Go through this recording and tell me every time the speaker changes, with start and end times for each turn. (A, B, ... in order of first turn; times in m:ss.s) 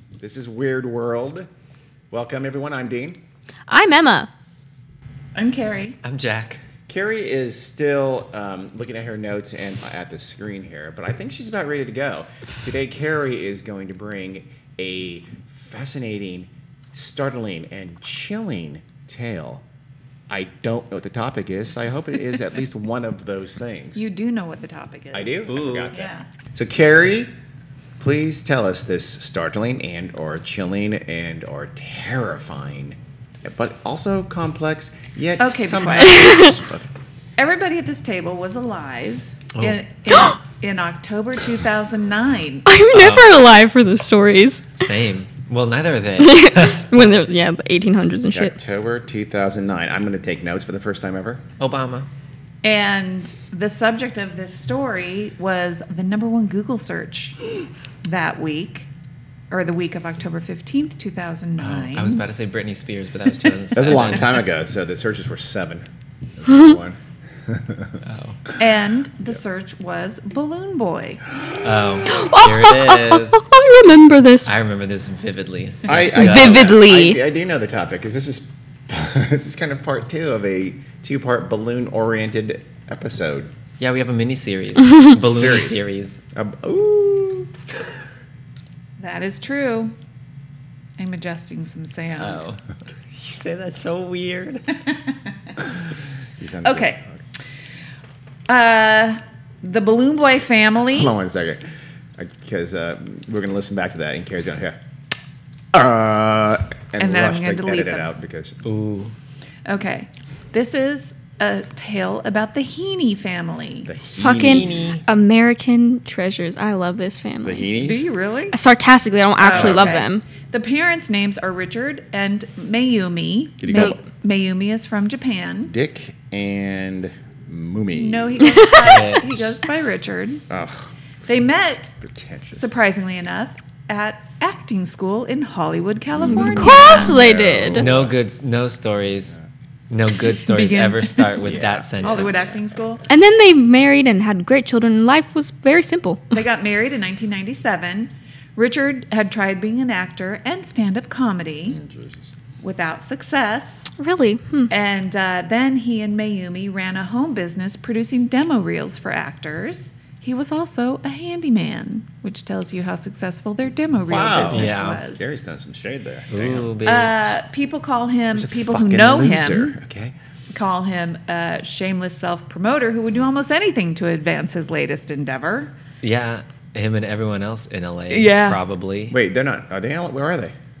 0:00.2-0:01.5 A
0:02.1-0:03.2 A
0:03.7-0:04.3 B
0:05.3-0:06.0 C
0:06.0-0:06.6 D
0:06.9-0:19.6 A
0:20.3-0:24.0 A
0:23.9-0:26.2 C
0:25.1-0:27.3 A
0:25.5-0:25.9 D
0:28.0-0:36.9 A
0:35.4-0:36.5 C
0:36.1-0:36.6 B
0:37.4-0:42.6 C
0:40.1-0:40.3 B
0:42.6-0:44.8 B
0:42.9-0:43.3 D
0:44.8-0:46.9 D
0:46.2-0:48.5 B
0:48.3-0:51.4 A
0:51.6-0:52.1 D
0:52.6-0:57.4 C
0:58.0-0:58.9 C
0:59.5-1:02.2 C
1:01.6-1:04.4 D
1:03.7-1:08.0 A
1:08.0-1:08.4 D
1:08.6-1:11.2 C
1:11.4-1:12.3 A
1:11.6-1:13.5 D
1:12.1-1:14.6 B
1:14.4-1:16.8 D
1:15.8-1:23.5 A
1:16.1-1:17.2 B
1:23.8-1:26.2 D
1:25.2-1:27.5 A
1:29.0-1:29.9 C
1:31.0-1:32.4 C
1:32.2-1:32.6 D
1:33.1-1:34.6 D
1:36.4-1:37.2 A
1:36.6-1:37.0 C
1:38.5-1:41.1 C
1:40.9-1:41.6 A
1:42.2-1:44.8 A
1:45.7-1:48.6 A
1:47.0-1:48.1 C
1:48.6-1:49.1 D
1:49.6-1:53.9 C
1:53.8-1:54.7 A
1:54.2-1:57.7 B
1:54.2-1:55.0 D
1:57.4-1:58.0 A
1:57.8-1:58.5 C
1:58.5-2:00.2 B
1:59.4-2:05.7 C
1:59.5-2:00.0 A
2:03.6-2:04.0 A
2:03.7-2:04.0 B
2:05.7-2:09.0 A
2:07.9-2:10.4 C
2:08.8-2:09.4 D
2:10.5-2:10.9 A
2:11.2-2:11.9 C
2:12.0-2:12.7 A
2:12.5-2:17.2 C
2:16.1-2:18.2 A
2:16.2-2:17.9 B
2:17.8-2:19.4 D
2:19.9-2:22.5 D
2:20.4-2:23.0 C
2:21.4-2:23.1 A
2:23.1-2:26.3 B
2:26.3-2:31.8 C
2:31.7-2:32.3 A
2:32.6-2:33.9 C
2:34.0-2:34.7 B
2:34.7-2:45.3 C
2:44.1-2:46.7 A
2:44.5-2:45.0 D
2:46.3-2:47.3 D
2:46.8-2:49.8 C
2:48.3-2:50.2 A
2:50.5-2:55.7 C
2:56.0-2:59.2 D
2:58.1-2:58.6 C
2:59.1-3:00.5 A